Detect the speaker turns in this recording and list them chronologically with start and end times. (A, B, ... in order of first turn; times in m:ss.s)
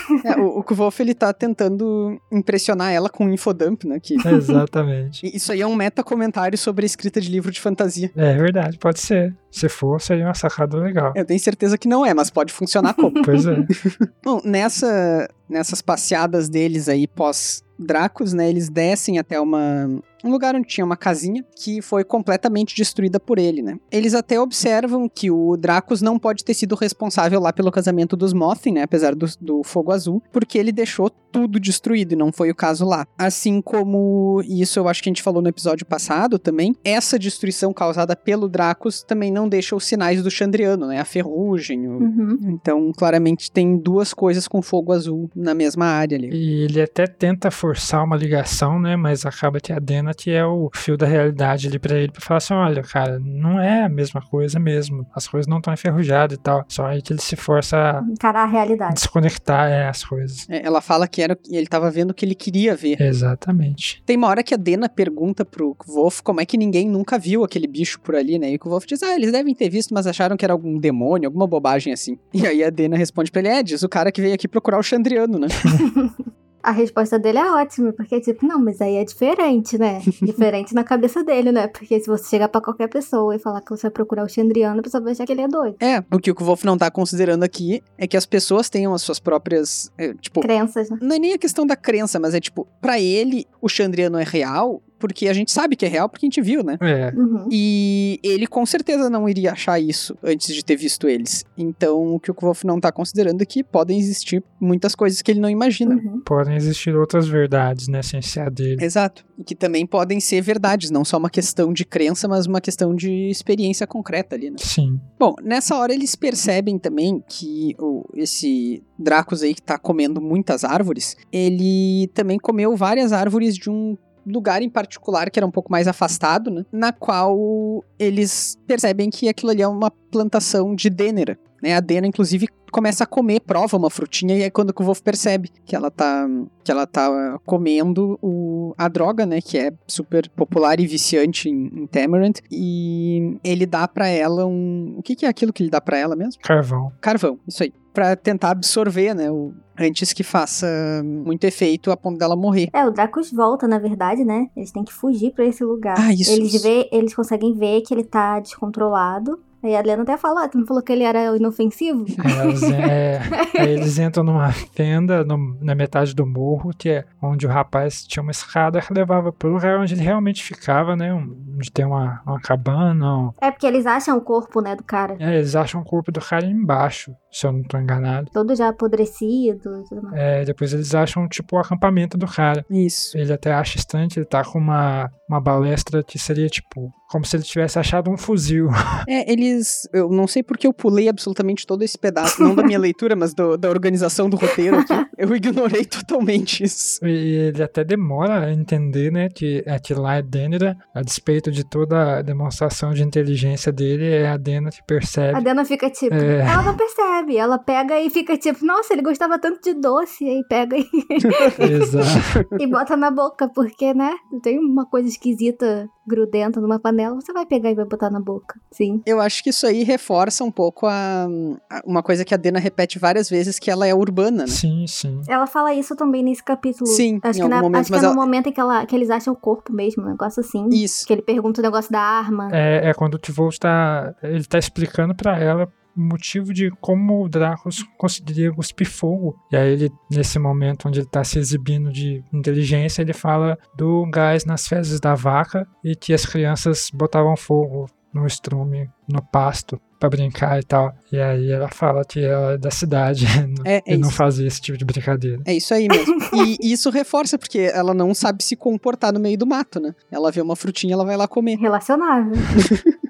0:00.2-0:04.2 A
0:04.2-0:04.6 B
0:04.2-0:05.2 C
0:05.2-0:08.1 A
0:08.1-0:11.2 C
0:11.1-0:46.3 A
0:13.0-0:13.7 B
0:13.2-0:13.7 C
0:42.0-0:42.4 B
0:46.3-0:58.0 C
0:58.0-0:59.0 B
0:58.9-1:00.4 C
1:00.5-1:03.0 A
1:03.0-1:04.0 C
1:04.1-1:15.6 A
1:15.7-1:25.8 B
1:25.8-1:30.5 A
1:30.4-1:31.0 B
1:31.0-1:36.8 A
1:36.8-1:37.2 C
1:37.1-1:37.5 B
1:37.5-1:46.0 A
1:45.8-1:46.2 B
1:46.2-1:48.8 C
1:48.8-1:54.6 A
1:54.6-1:55.0 C
1:55.2-2:26.4 A
2:26.4-2:26.9 C
2:27.0-2:32.7 A
2:32.7-2:42.9 B
2:36.0-2:36.7 A
2:42.2-2:53.4 C
2:53.4-2:55.2 B
2:55.2-2:58.3 C
2:58.3-3:00.2 B
3:00.1-3:09.0 C
3:02.7-3:03.2 A
3:09.1-3:17.0 A
3:14.8-3:15.0 B
3:17.0-3:25.5 C
3:25.3-3:31.8 B
3:26.1-3:26.8 C
3:31.2-3:32.6 A
3:31.6-3:32.4 C
3:32.6-3:39.0 B
3:39.0-3:44.6 A
3:44.5-3:45.3 C
3:45.3-3:52.6 B
3:46.8-3:48.2 A
3:50.7-3:51.1 A
3:52.5-4:15.4 C
4:13.6-4:14.2 A
4:15.4-4:21.6 A
4:21.6-4:22.6 B
4:22.5-4:22.9 A